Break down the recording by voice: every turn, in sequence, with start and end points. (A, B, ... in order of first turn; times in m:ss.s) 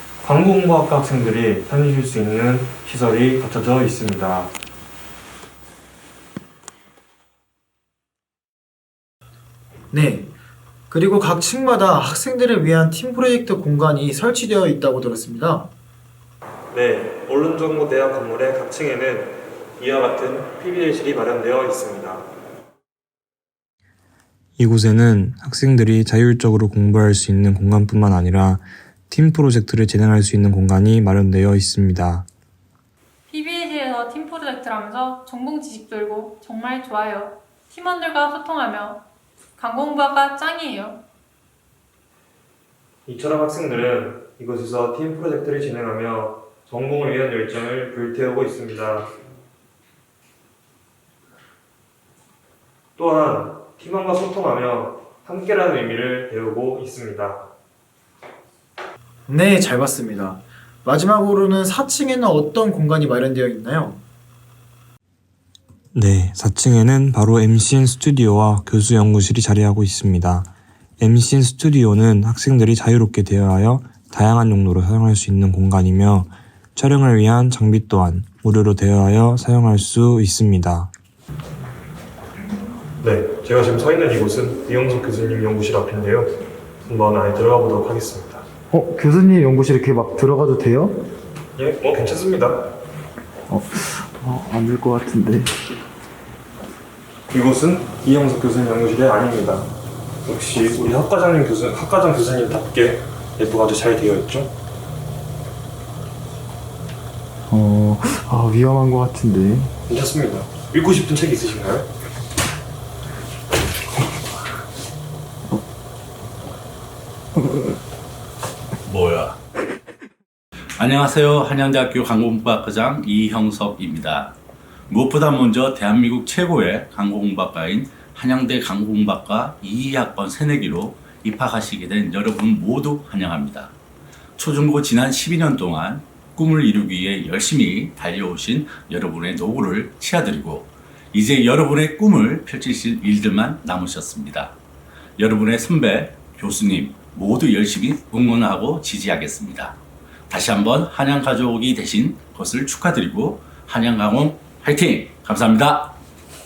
0:00.2-0:04.5 A
0:09.9-0:10.3 B
0:10.9-0:15.7 B
0:16.7-0:22.2 A
0:24.6-0:32.3 C
0:33.7-0:37.2 D
0:39.6-0:40.0 D
0:43.0-0:49.1 A
0:53.0-0:57.5 A
0:59.3-1:04.0 B
1:05.9-1:20.9 C
1:23.0-1:26.3 A
1:26.9-1:28.4 A
1:28.7-1:31.1 B
1:31.6-1:32.6 A
1:33.5-1:35.5 B
1:37.3-1:39.7 A
1:40.2-1:44.5 A
1:47.5-1:49.7 B
1:49.9-1:51.9 A
1:58.8-1:59.4 E
2:00.8-2:04.3 E
2:04.9-2:13.7 E
2:14.4-2:24.6 E
2:25.2-2:29.8 E
2:30.3-2:36.0 E